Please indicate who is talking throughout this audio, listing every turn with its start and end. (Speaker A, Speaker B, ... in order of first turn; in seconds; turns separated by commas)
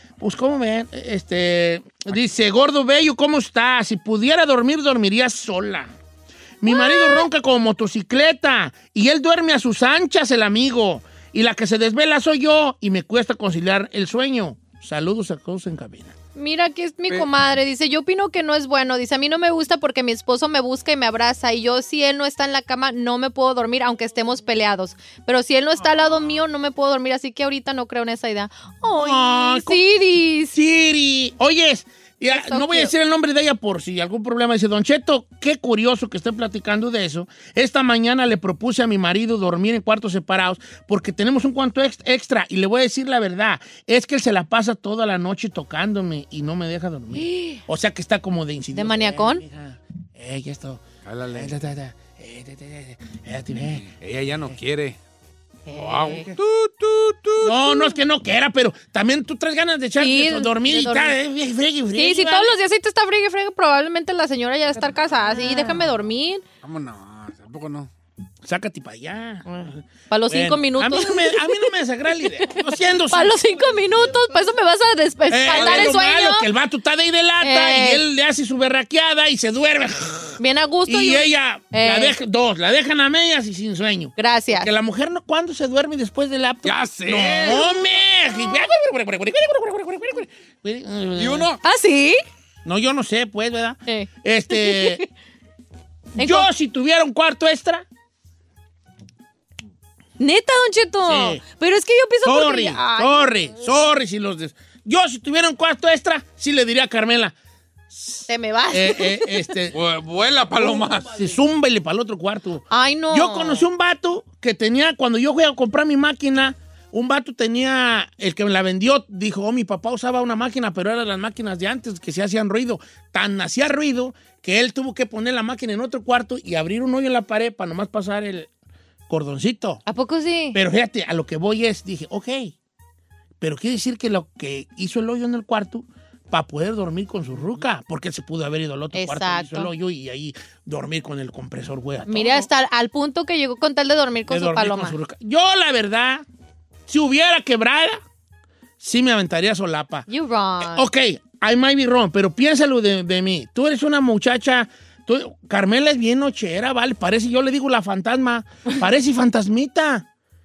Speaker A: 0.2-5.9, Speaker A: 6.6-16.1, Speaker B: 6.7-7.3, Speaker B: 16.4-30.6, Speaker A: 28.9-29.8, Speaker A: 30.5-53.9, Speaker B: 32.3-32.9, Speaker B: 47.1-47.6, Speaker B: 48.7-49.4, Speaker C: 51.0-51.6, Speaker C: 53.8-55.0, Speaker B: 55.7-56.3, Speaker C: 55.7-57.7, Speaker A: 57.4-62.5, Speaker B: 60.0-61.1, Speaker B: 61.9-66.4, Speaker C: 66.6-67.9, Speaker A: 68.4-73.4, Speaker B: 69.5-71.6, Speaker B: 73.1-76.5, Speaker A: 75.3-91.5, Speaker C: 75.5-75.9, Speaker B: 77.4-78.0, Speaker B: 80.4-82.1, Speaker B: 84.2-84.7, Speaker C: 86.6-87.7, Speaker C: 91.2-91.6, Speaker B: 91.6-92.2, Speaker A: 92.6-95.0, Speaker B: 93.9-95.0, Speaker A: 96.2-97.8, Speaker B: 96.2-96.5, Speaker B: 100.2-103.3, Speaker A: 101.0-101.4, Speaker A: 102.2-107.3, Speaker A: 107.9-109.8, Speaker B: 108.3-109.4, Speaker C: 109.7-111.2, Speaker A: 110.6-128.5, Speaker B: 112.7-113.7, Speaker A: 129.1-129.8, Speaker B: 129.9-130.6, Speaker A: 130.5-132.5, Speaker A: 133.4-142.5, Speaker B: 138.9-139.7, Speaker B: 142.1-145.0, Speaker A: 144.3-146.2, Speaker A: 146.9-148.0, Speaker A: 148.8-150.1, Speaker B: 150.1-150.8, Speaker A: 150.6-160.1